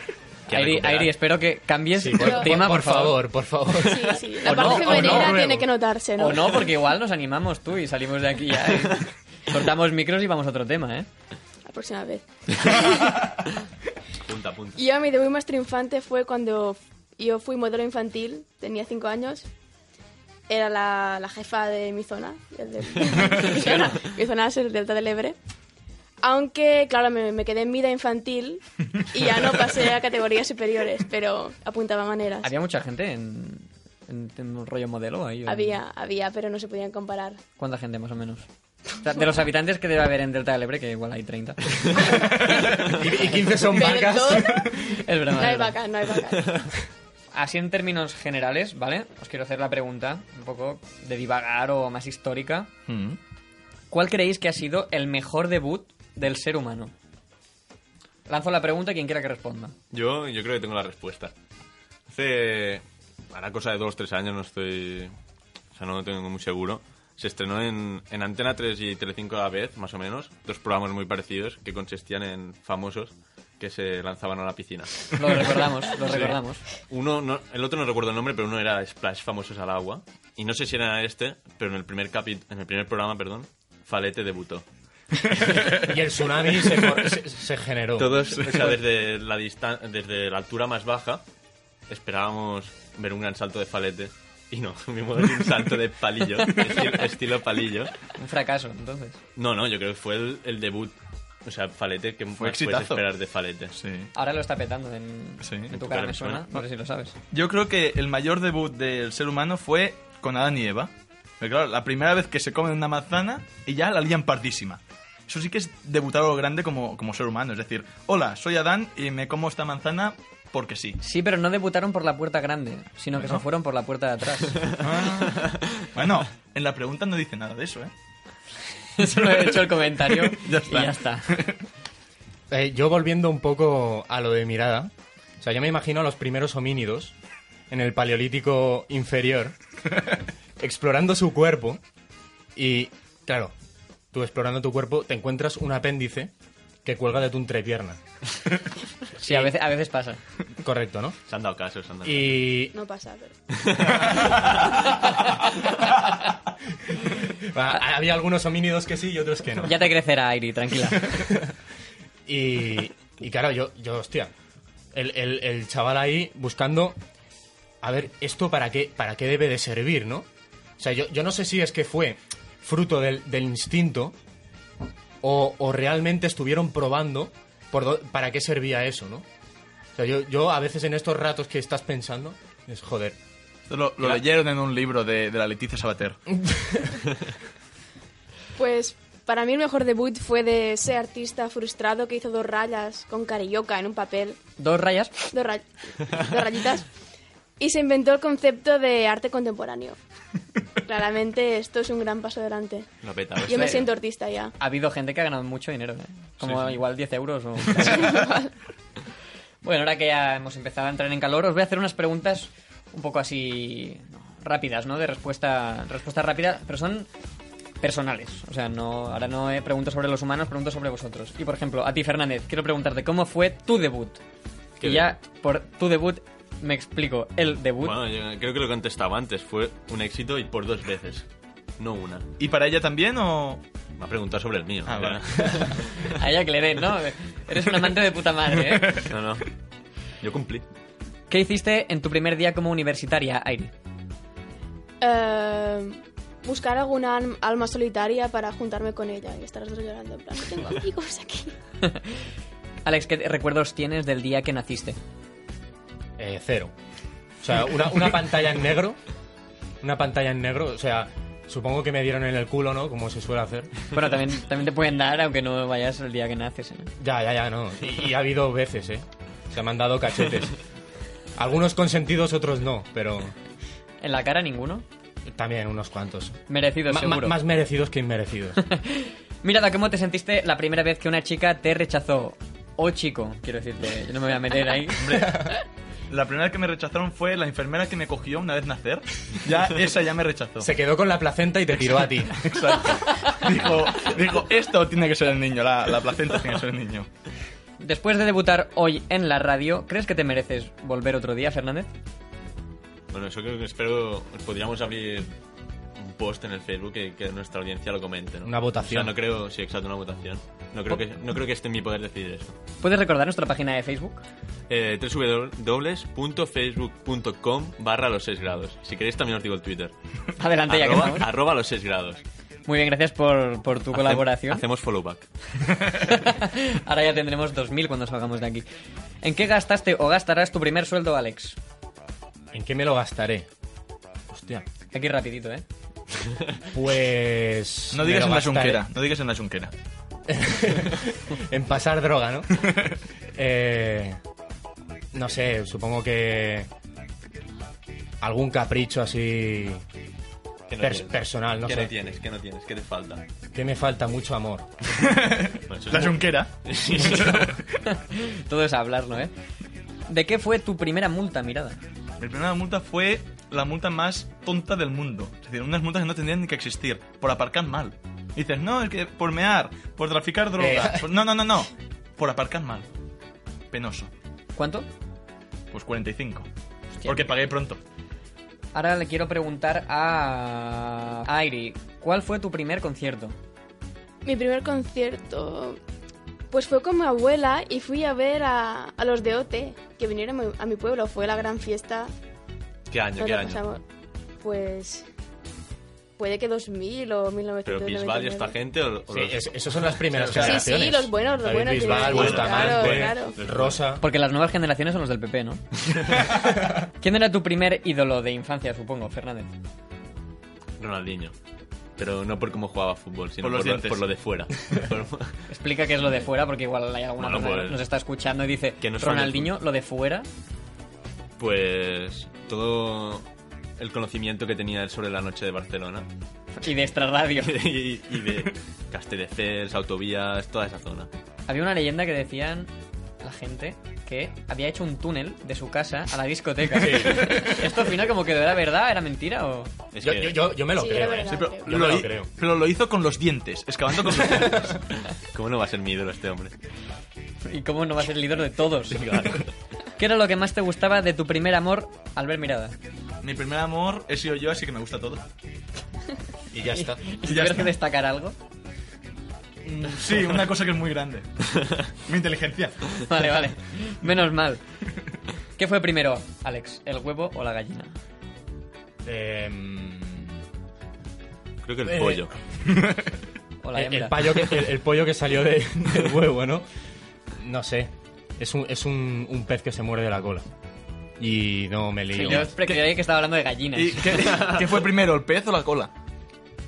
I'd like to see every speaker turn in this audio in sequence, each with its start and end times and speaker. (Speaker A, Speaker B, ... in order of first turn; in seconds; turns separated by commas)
Speaker A: 0.5-1.1, Speaker B: 0.5-3.2, Speaker C: 1.9-5.6, Speaker D: 2.2-2.4, Speaker D: 3.8-6.7, Speaker B: 4.4-5.4, Speaker B: 6.2-11.1, Speaker D: 11.7-13.2, Speaker A: 14.2-14.8, Speaker D: 14.8-19.5, Speaker D: 20.5-25.4, Speaker D: 26.2-32.5, Speaker B: 32.4-35.8, Speaker D: 35.5-37.4, Speaker B: 37.6-42.1, Speaker C: 42.8-44.8, Speaker D: 43.5-46.7, Speaker B: 44.9-45.8, Speaker B: 47.3-52.7, Speaker E: 52.9-53.2, Speaker B: 53.9-56.9, Speaker B: 58.2-59.7, Speaker A: 59.9-61.3, Speaker A: 62.1-65.1, Speaker A: 65.7-84.6, Speaker B: 75.1-76.6, Speaker C: 85.7-88.2, Speaker A: 88.0-91.2, Speaker E: 88.3-88.7, Speaker A: 91.9-97.9, Speaker B: 98.1-99.2, Speaker A: 99.3-103.7, Speaker E: 102.4-103.0, Speaker E: 103.8-104.1, Speaker B: 104.1-107.1, Speaker E: 105.4-105.7, Speaker A: 105.7-106.5, Speaker E: 107.3-121.0, Speaker B: 121.0-124.6, Speaker E: 123.2-123.4, Speaker E: 124.8-127.9, Speaker B: 128.9-131.4, Speaker E: 130.2-131.6, Speaker C: 132.5-137.1, Speaker C: 137.7-139.6, Speaker C: 140.6-141.8, Speaker C: 142.5-143.5, Speaker C: 144.1-146.3, Speaker C: 146.8-148.0, Speaker B: 149.2-150.2, Speaker C: 149.2-149.5, Speaker C: 150.6-151.2, Speaker A: 151.3-152.4, Speaker C: 152.0-152.7, Speaker D: 152.7-153.3, Speaker A: 153.6-154.7, Speaker C: 156.9-159.7, Speaker B: 159.6-161.2, Speaker C: 161.1-161.5, Speaker C: 162.2-164.3, Speaker C: 164.9-167.0, Speaker C: 167.8-170.3, Speaker C: 170.8-174.2, Speaker C: 175.2-179.2, Speaker C: 179.9-183.2, Speaker E: 183.7-186.2, Speaker C: 186.4-187.0, Speaker D: 188.6-194.4, Speaker B: 194.6-195.1, Speaker D: 195.3-196.9, Speaker D: 197.6-200.0, Speaker D: 200.8-202.9, Speaker A: 203.0-203.9, Speaker D: 203.4-204.5, Speaker B: 203.5-203.8, Speaker B: 204.6-208.2, Speaker A: 206.4-206.8, Speaker D: 207.8-208.5, Speaker B: 209.6-217.1, Speaker B: 217.8-224.2, Speaker A: 224.8-225.1, Speaker B: 224.8-227.9, Speaker A: 227.8-231.3, Speaker A: 231.8-232.3, Speaker E: 232.4-233.6, Speaker A: 234.0-236.0, Speaker E: 234.8-235.8, Speaker B: 236.0-239.0, Speaker A: 239.0-239.5, Speaker A: 240.2-240.6, Speaker B: 241.3-243.7, Speaker D: 245.0-251.5, Speaker B: 251.8-252.2, Speaker B: 252.8-255.0, Speaker C: 256.2-256.7, Speaker C: 257.4-259.0, Speaker C: 259.8-263.7, Speaker B: 263.9-266.9, Speaker C: 267.0-270.6, Speaker C: 271.4-273.4, Speaker B: 274.0-274.8, Speaker C: 275.3-278.6, Speaker B: 276.5-277.4, Speaker B: 278.6-285.2, Speaker E: 285.0-285.6, Speaker E: 286.1-290.7, Speaker C: 290.6-292.4, Speaker E: 292.3-297.1, Speaker B: 297.8-301.9, Speaker A: 303.1-305.3, Speaker A: 306.0-312.6, Speaker C: 308.4-309.1, Speaker B: 312.8-314.2, Speaker A: 314.7-319.9, Speaker B: 320.4-321.3, Speaker A: 320.7-322.2, Speaker B: 322.6-324.6, Speaker A: 323.9-325.3, Speaker B: 326.0-328.6, Speaker B: 329.2-331.6, Speaker C: 332.5-333.5, Speaker C: 334.3-334.6, Speaker B: 334.9-335.6, Speaker C: 336.7-338.8, Speaker E: 337.9-339.7, Speaker C: 340.3-342.6, Speaker C: 343.3-344.2, Speaker C: 345.1-346.7, Speaker C: 348.2-349.8, Speaker A: 350.7-353.2, Speaker C: 350.8-351.9, Speaker C: 353.5-354.7, Speaker E: 355.0-357.6, Speaker A: 355.7-357.6, Speaker B: 357.9-359.3, Speaker B: 360.1-361.8, Speaker E: 362.2-372.9, Speaker C: 370.6-371.0, Speaker E: 373.7-374.1, Speaker B: 374.6-374.9, Speaker E: 375.7-376.5, Speaker E: 377.0-377.8, Speaker B: 378.7-383.4, Speaker D: 384.2-385.8, Speaker D: 386.5-392.1, Speaker A: 392.9-393.6, Speaker D: 393.2-393.8, Speaker D: 394.4-395.1, Speaker D: 396.2-398.6, Speaker A: 397.6-399.4, Speaker C: 399.1-404.0, Speaker A: 400.1-400.4, Speaker D: 400.3-403.3, Speaker A: 401.8-403.8, Speaker B: 404.0-405.6, Speaker B: 407.0-409.5, Speaker A: 410.8-411.3, Speaker A: 412.0-415.4, Speaker E: 413.4-414.0, Speaker B: 415.5-420.3, Speaker A: 417.2-417.8, Speaker A: 418.8-419.5, Speaker A: 421.4-423.2, Speaker A: 423.8-426.1, Speaker B: 426.6-427.6, Speaker A: 427.4-431.1, Speaker B: 431.5-432.7, Speaker B: 433.2-439.7, Speaker C: 436.9-437.2, Speaker A: 439.9-440.5, Speaker C: 440.0-442.3, Speaker D: 440.7-441.9, Speaker E: 441.3-444.8, Speaker A: 445.3-446.5, Speaker B: 447.4-449.1, Speaker A: 448.9-449.5, Speaker B: 450.0-452.7, Speaker E: 453.2-455.2, Speaker C: 456.5-457.0, Speaker B: 456.7-458.4, Speaker E: 457.2-457.7, Speaker E: 459.6-461.3, Speaker E: 462.1-462.9, Speaker B: 463.1-464.6, Speaker B: 465.6-467.9, Speaker C: 469.0-470.3, Speaker A: 471.6-472.3, Speaker C: 471.8-472.3, Speaker E: 472.7-473.1, Speaker B: 473.6-474.3, Speaker C: 473.7-476.6, Speaker C: 477.3-480.4, Speaker C: 481.2-482.5, Speaker B: 482.1-484.3, Speaker E: 482.6-482.8, Speaker E: 483.7-485.9